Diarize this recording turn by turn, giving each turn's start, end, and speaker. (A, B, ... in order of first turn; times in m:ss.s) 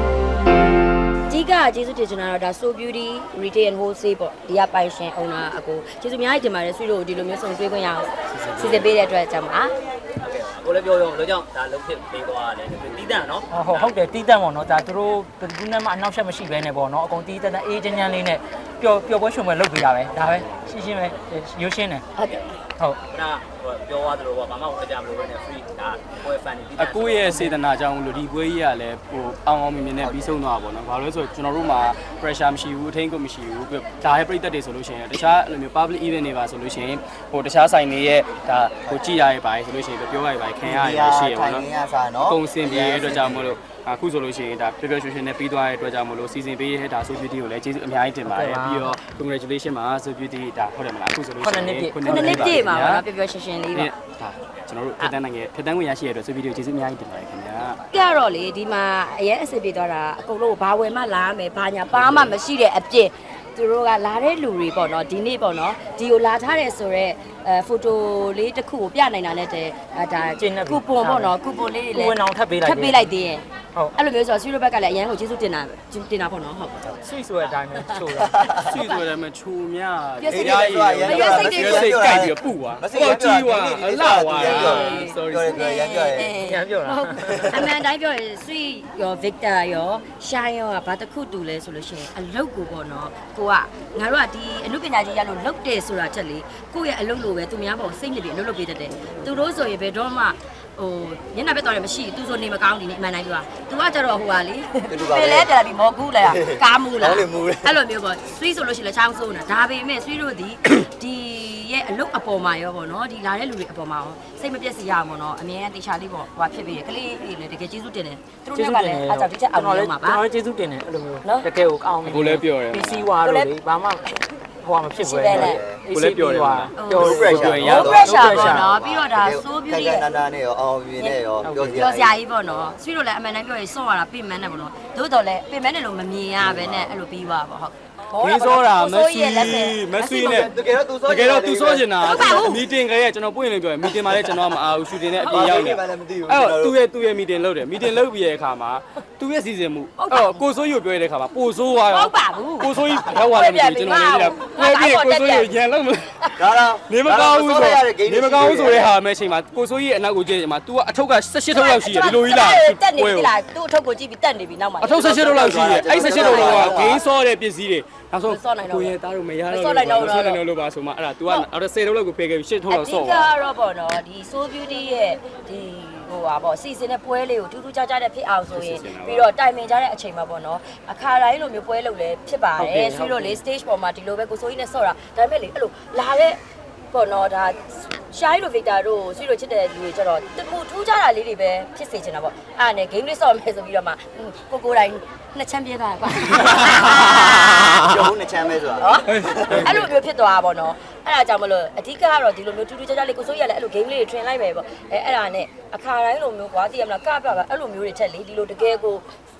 0:01.3-0:09.7 A
0:08.3-0:08.9 B
0:10.2-0:13.9 C
0:13.5-0:22.0 D
0:20.2-0:20.5 B
0:22.2-0:22.6 A
0:23.1-0:27.4 C
0:26.8-0:41.6 B
0:38.8-0:39.1 E
0:40.6-0:43.5 E
0:42.2-0:53.0 B
0:48.3-0:48.9 D
0:51.4-0:52.5 D
0:52.0-0:53.9 A
0:53.7-0:57.8 B
0:57.9-1:17.0 A
1:01.9-1:02.3 B
1:10.4-1:11.3 D
1:11.9-1:13.0 D
1:16.9-1:18.4 D
1:17.7-1:18.1 A
1:18.2-1:18.6 E
1:18.6-1:25.5 B
1:20.2-1:21.9 A
1:20.3-1:26.4 E
1:24.4-2:00.2 A
1:26.4-1:27.5 D
1:27.2-1:27.6 E
1:44.9-1:45.5 E
1:46.2-1:47.8 E
1:58.5-2:08.6 D
2:01.2-2:01.5 A
2:02.0-2:03.1 B
2:03.2-2:03.5 A
2:05.0-2:05.6 A
2:05.3-2:05.8 E
2:05.9-2:08.6 B
2:06.8-2:10.1 A
2:06.9-2:12.2 E
2:11.4-2:11.8 D
2:11.7-2:20.5 A
2:16.5-2:16.8 E
2:18.2-2:20.5 B
2:20.1-2:22.0 E
2:21.0-2:36.3 B
2:22.0-2:22.6 A
2:25.1-2:25.6 A
2:25.3-2:26.8 E
2:30.0-2:30.4 A
2:31.9-2:35.6 A
2:36.4-2:38.9 E
2:36.9-2:43.3 B
2:41.5-2:47.0 A
2:44.8-2:53.3 B
2:45.0-2:47.0 E
2:48.2-2:48.9 A
2:49.5-2:50.4 A
2:52.7-3:06.4 A
2:58.5-2:59.3 B
3:02.6-3:03.4 D
3:06.9-3:17.9 A
3:16.4-3:17.0 B
3:17.8-3:19.7 E
3:18.8-3:29.1 A
3:19.1-3:19.8 B